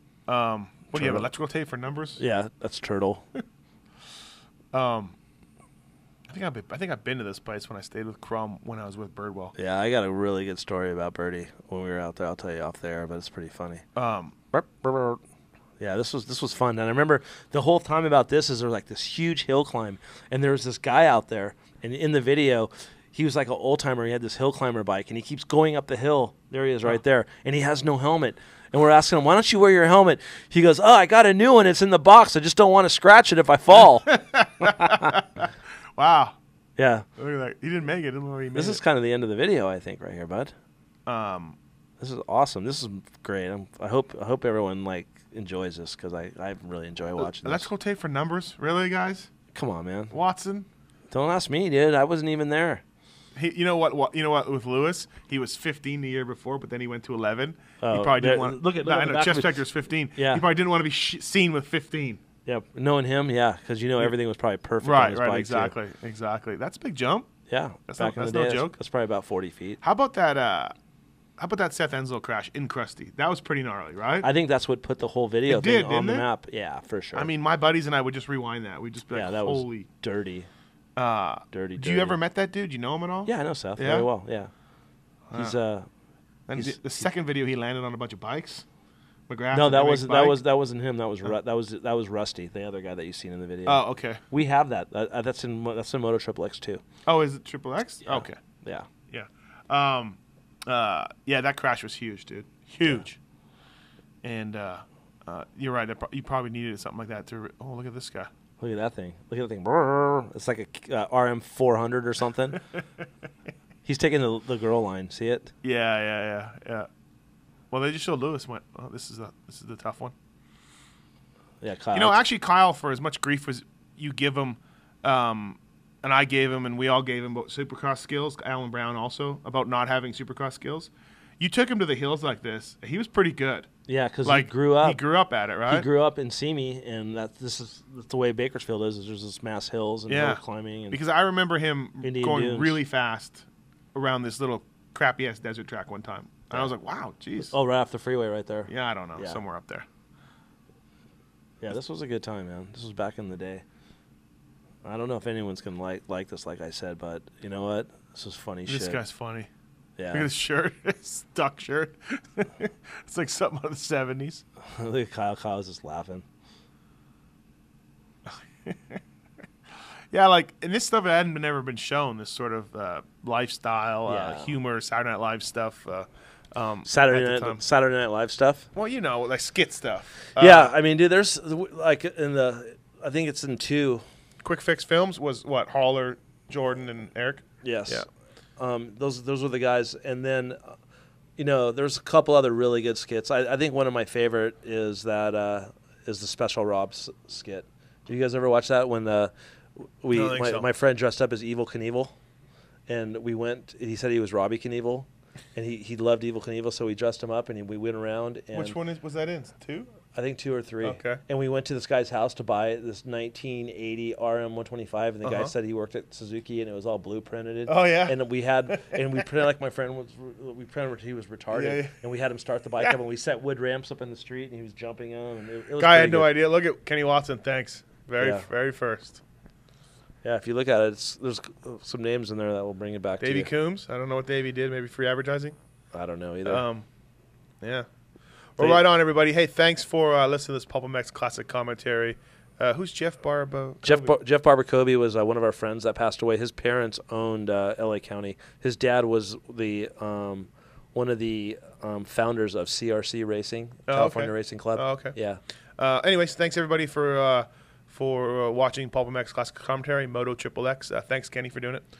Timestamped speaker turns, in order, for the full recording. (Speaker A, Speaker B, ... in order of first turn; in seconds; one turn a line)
Speaker A: 0.3-2.2
Speaker B: 0.9-1.3
Speaker B: 2.2-3.2
Speaker A: 4.7-5.1
Speaker A: 6.3-9.5
Speaker B: 9.5-13.8
Speaker A: 13.9-14.3
Speaker B: 14.5-15.2
Speaker B: 15.8-35.1
Speaker A: 34.0-36.4
Speaker B: 36.8-37.0
Speaker A: 37.2-38.8
Speaker B: 38.5-40.5
Speaker A: 41.1-41.6
Speaker B: 42.0-47.6
Speaker A: 47.2-49.3
Speaker B: 49.5-50.1
Speaker A: 50.1-50.7
Speaker B: 51.1-52.8
Speaker A: 53.4-62.2
Speaker B: 57.8-59.6
Speaker B: 60.1-60.4
Speaker B: 62.5-65.7
Speaker A: 64.8-67.3
Speaker B: 67.5-69.8
Speaker A: 67.9-68.7
Speaker A: 69.8-70.7
Speaker A: 71.4-74.3
Speaker B: 74.2-77.3
Speaker A: 75.5-76.2
Speaker A: 77.1-79.9
Speaker B: 79.1-80.5
Speaker A: 81.0-84.1
Speaker B: 81.5-82.2
Speaker B: 83.2-84.5
Speaker A: 85.3-85.6
Speaker B: 85.3-85.9
Speaker A: 86.5-88.6
Speaker B: 86.5-87.0
Speaker A: 89.3-90.4
Speaker B: 89.5-96.8
Speaker A: 93.7-94.2
Speaker A: 97.0-98.4
Speaker B: 98.0-98.9
Speaker A: 99.1-103.2
Speaker A: 104.2-108.3
Speaker B: 108.6-112.6
Speaker B: 113.8-115.5
Speaker A: 115.6-116.9
Speaker A: 117.7-120.1
Speaker B: 121.6-122.2
Speaker A: 121.9-133.7
Speaker B: 133.9-135.0
Speaker A: 134.2-135.9
Speaker B: 135.7-141.0
Speaker A: 140.1-147.5
Speaker B: 142.0-142.8
Speaker B: 147.5-149.4
Speaker A: 148.7-149.8
Speaker B: 151.6-153.6
Speaker B: 154.8-159.0
Speaker A: 158.7-159.5
Speaker B: 160.0-160.3
Speaker A: 160.1-164.4
Speaker B: 164.7-166.2
Speaker A: 168.3-169.0
Speaker A: 170.1-177.6
Speaker B: 174.1-174.5
Speaker B: 176.8-178.7
Speaker A: 178.7-180.7
Speaker B: 180.4-184.0
Speaker A: 184.4-188.1
Speaker B: 187.6-188.0
Speaker B: 188.6-190.8
Speaker B: 191.4-202.1
Speaker A: 200.1-200.7
Speaker B: 202.9-208.8
Speaker A: 208.5-209.9
Speaker B: 210.1-226.3
Speaker A: 210.8-211.2
Speaker A: 215.2-215.5
Speaker A: 217.7-219.0
Speaker A: 221.5-221.9
Speaker A: 225.8-229.2
Speaker B: 228.2-228.4
Speaker B: 230.2-233.5
Speaker A: 233.2-235.5
Speaker B: 235.9-236.6
Speaker A: 236.4-236.8
Speaker A: 238.6-244.1
Speaker B: 238.6-238.8
Speaker B: 243.8-255.4
Speaker A: 253.9-255.2
Speaker A: 255.8-261.8